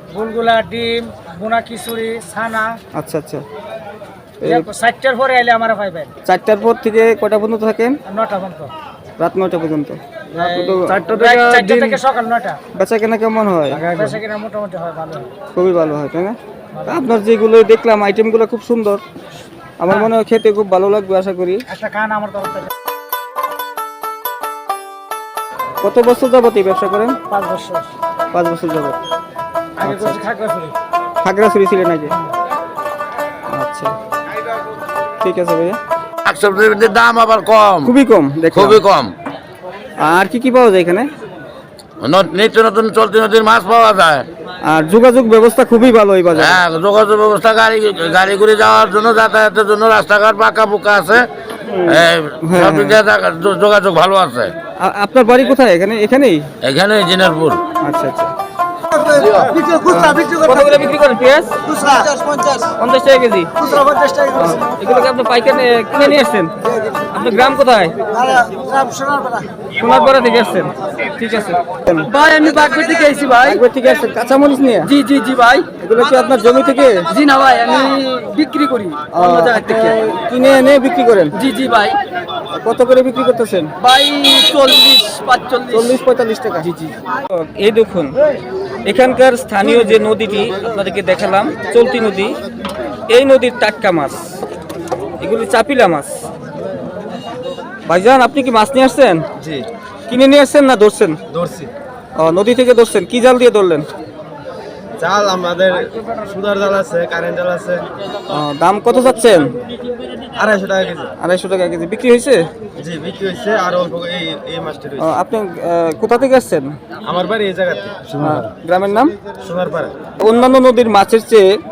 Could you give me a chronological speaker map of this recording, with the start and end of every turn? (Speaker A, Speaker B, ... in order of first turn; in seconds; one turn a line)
Speaker A: 0.1-2.7
Speaker B: 3.0-3.4
Speaker B: 4.4-4.7
Speaker A: 4.4-6.1
Speaker B: 6.2-8.0
Speaker A: 8.1-8.7
Speaker B: 9.2-11.5
Speaker A: 10.6-12.6
Speaker B: 12.7-13.8
Speaker C: 13.7-14.1
Speaker A: 13.9-15.2
Speaker B: 15.5-19.0
Speaker B: 19.8-21.6
Speaker A: 21.7-22.7
Speaker B: 25.8-27.2
Speaker A: 27.3-27.9
Speaker B: 28.3-28.9
Speaker B: 29.8-30.2
Speaker A: 29.8-30.7
Speaker B: 31.2-32.1
Speaker B: 33.5-33.9
Speaker B: 35.2-35.8
Speaker D: 36.2-37.9
Speaker B: 37.8-38.8
Speaker D: 38.5-39.1
Speaker B: 40.0-41.1
Speaker D: 42.0-44.2
Speaker B: 44.6-46.6
Speaker D: 46.3-51.2
Speaker B: 51.6-53.0
Speaker D: 51.9-54.5
Speaker B: 54.8-56.4
Speaker D: 56.6-57.6
Speaker B: 57.8-58.3
Speaker B: 59.2-62.0
Speaker B: 62.7-66.5
Speaker B: 67.1-68.0
Speaker B: 69.7-72.1
Speaker E: 72.8-73.1
Speaker B: 73.3-74.9
Speaker B: 75.7-77.1
Speaker E: 77.3-78.7
Speaker B: 79.1-81.3
Speaker B: 82.5-83.7
Speaker E: 83.9-85.6
Speaker B: 85.7-86.7
Speaker B: 87.3-88.1
Speaker B: 88.8-92.3
Speaker B: 93.1-94.4
Speaker B: 95.2-96.2
Speaker B: 97.8-99.2
Speaker B: 100.1-101.2
Speaker C: 101.3-101.7
Speaker B: 102.2-103.8
Speaker C: 105.0-107.8
Speaker B: 108.3-109.5
Speaker C: 110.4-111.1
Speaker B: 111.2-112.4
Speaker C: 112.8-115.0
Speaker B: 115.0-116.7
Speaker C: 117.1-118.4
Speaker B: 118.2-119.1
Speaker C: 119.4-119.9
Speaker B: 120.2-121.5